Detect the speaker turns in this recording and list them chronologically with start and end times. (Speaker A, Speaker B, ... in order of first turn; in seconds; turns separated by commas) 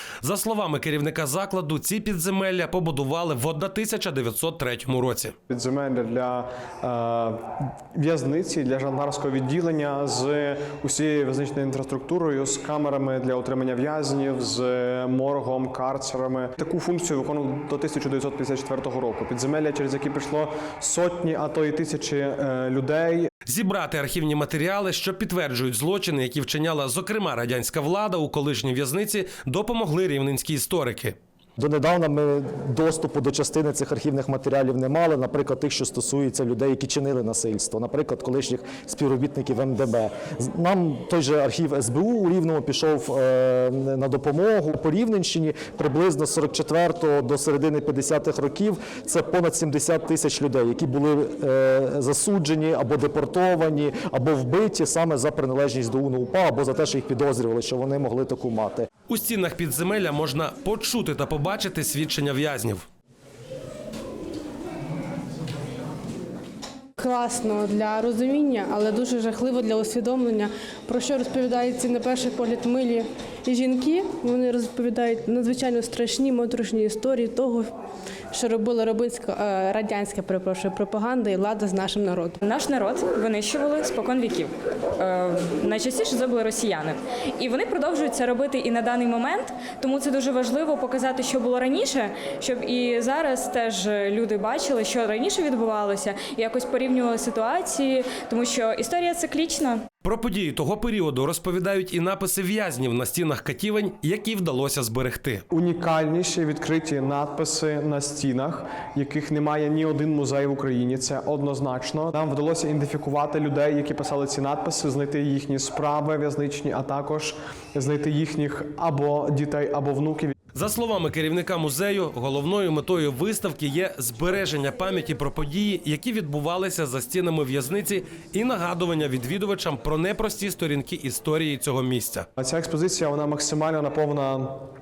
Speaker A: 0.2-5.3, Speaker B: 5.5-23.3, Speaker A: 23.5-31.2, Speaker C: 31.6-58.9, Speaker A: 59.1-62.9, Speaker D: 67.0-77.7, Speaker D: 78.3-82.4, Speaker E: 82.4-99.8, Speaker A: 100.0-105.5, Speaker B: 105.5-120.3, Speaker A: 120.5-132.3, Speaker B: 132.4-134.6